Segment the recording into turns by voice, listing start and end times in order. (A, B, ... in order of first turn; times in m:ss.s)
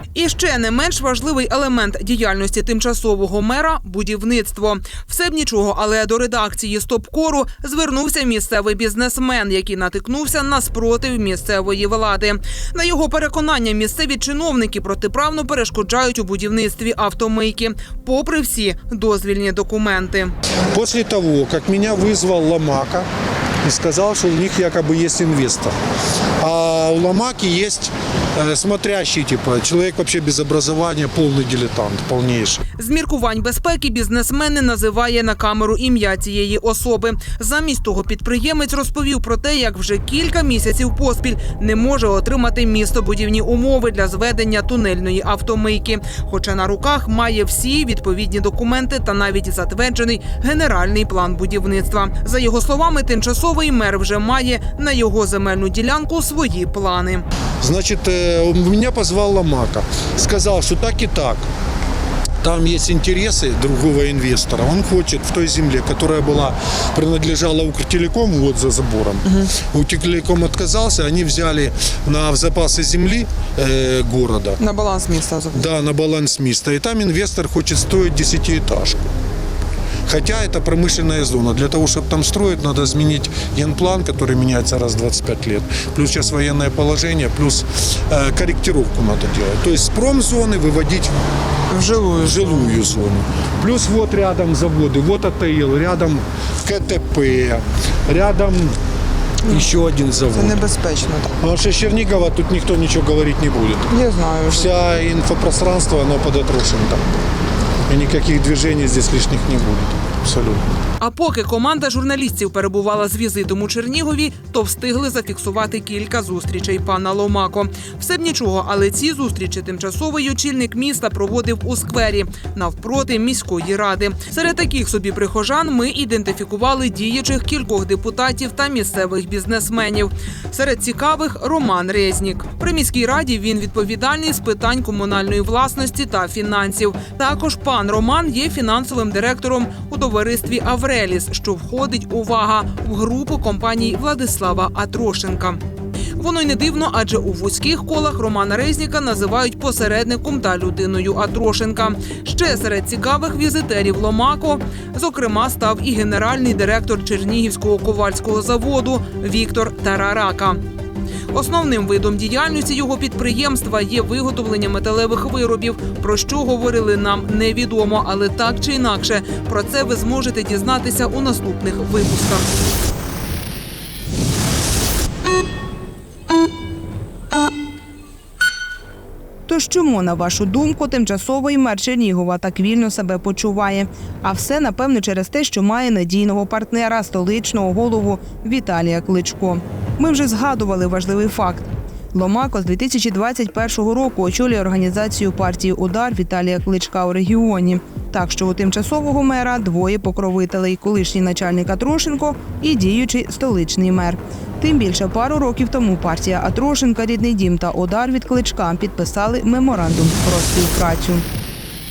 0:00.2-0:20.3 A
0:20.7-0:23.0 B
0:23.6-0:25.7 B
0:26.4-0:32.6 B
0:32.8-0:57.2 A
0:57.6-1:01.4 B
1:02.4-1:14.6 B
1:14.6-1:15.6 C
1:15.5-1:19.1 B
1:20.1-1:31.1 B
1:31.7-1:32.7 C
1:32.2-1:38.8 B
1:39.5-1:40.6 B
1:40.3-1:41.4 C
1:41.4-1:43.9 B
1:43.9-1:44.7 C
1:44.5-1:47.0 B
1:47.9-1:50.6 B
1:51.0-2:25.6 A
2:26.2-2:40.6 A
2:41.3-2:52.5 A
2:59.5-3:31.2 D